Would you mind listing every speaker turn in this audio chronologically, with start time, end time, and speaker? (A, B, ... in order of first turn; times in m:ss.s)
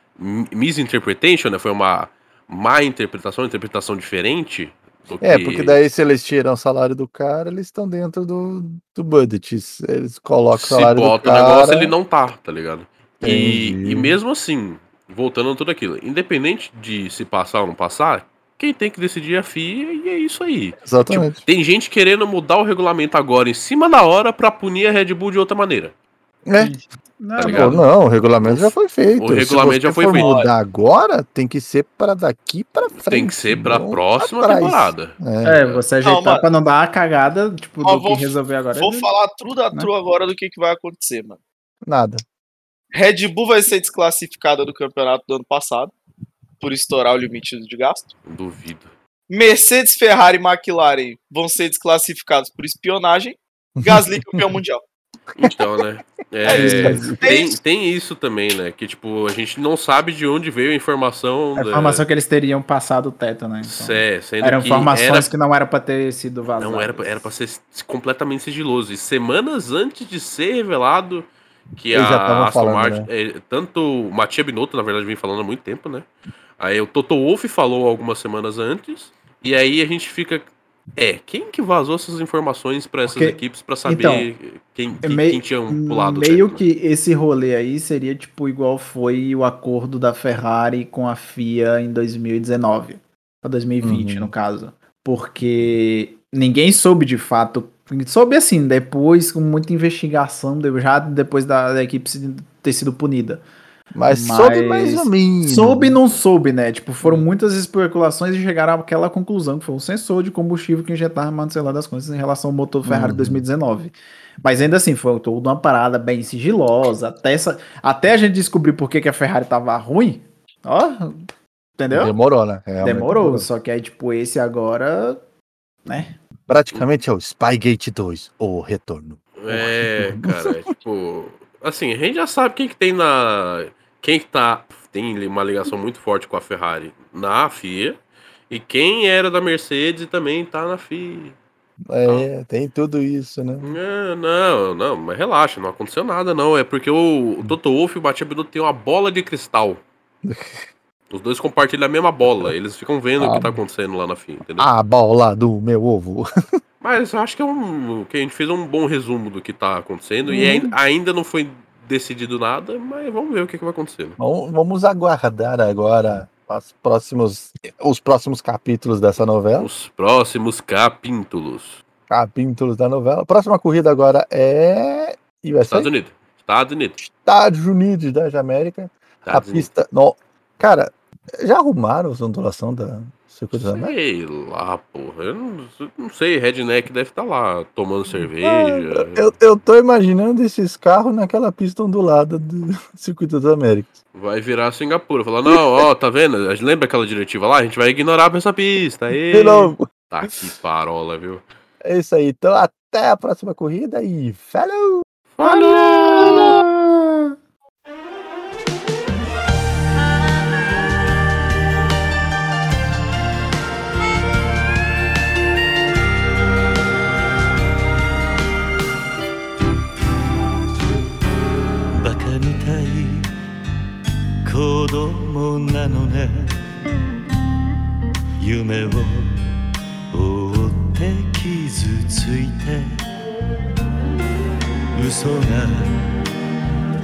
0:00.2-0:05.8 A
0:05.2-0:11.9 B
0:10.5-0:25.9 A
0:13.2-0:14.2 B
0:20.8-0:21.4 B
0:26.5-0:26.7 B
0:26.6-0:27.8 C
0:27.4-0:27.8 A
0:27.5-0:35.6 B
0:28.4-0:30.5 A
0:33.0-0:35.8 A
0:35.4-0:39.1 C
0:36.0-0:36.4 D
0:37.8-0:41.4 D
0:41.9-0:42.2 B
0:42.9-0:45.9 D
0:46.6-0:48.1 D
0:48.2-0:48.9 A
0:49.3-0:54.8 D
0:53.8-0:54.6 B
0:55.4-1:02.0 A
0:56.4-0:57.2 B
0:56.5-0:57.2 C
0:57.2-0:57.6 D
1:01.6-1:07.3 C
1:03.6-1:05.3 A
1:06.6-1:16.1 A
1:11.9-1:13.1 B
1:16.6-1:26.6 A
1:23.0-1:24.3 C
1:25.0-1:43.4 C
1:33.8-1:34.3 B
1:43.9-1:46.0 B
1:44.1-2:01.2 C
1:52.8-1:53.4 B
2:01.8-2:02.1 C
2:01.9-2:03.5 B
2:02.8-2:05.2 C
2:05.8-2:06.2 C
2:06.5-2:10.5 B
2:09.4-2:18.0 A
2:18.5-2:21.4 A
2:21.9-2:23.7 B
2:23.6-2:29.8 A
2:30.2-2:30.6 B
2:31.1-2:34.7 A
2:33.2-2:33.6 B
2:34.6-2:36.3 B
2:36.8-2:44.2 A
2:40.3-2:40.7 B
2:44.2-2:49.7 B
2:49.6-2:51.8 A
2:52.1-2:55.9 B
2:55.7-2:57.0 A
2:57.0-3:03.9 B
2:59.2-2:59.7 A
3:03.5-3:09.4 A
3:08.2-3:13.9 B
3:14.1-3:21.4 A
3:15.5-3:15.8 B
3:19.3-3:20.3 B
3:21.8-3:25.5 B
3:25.4-3:26.6 A
3:25.9-3:26.5 C
3:26.1-3:26.7 B
3:42.0-3:43.3 E
3:44.4-3:46.6 E
3:48.4-3:49.5 E
3:50.1-3:53.0 E
3:54.9-3:56.1 E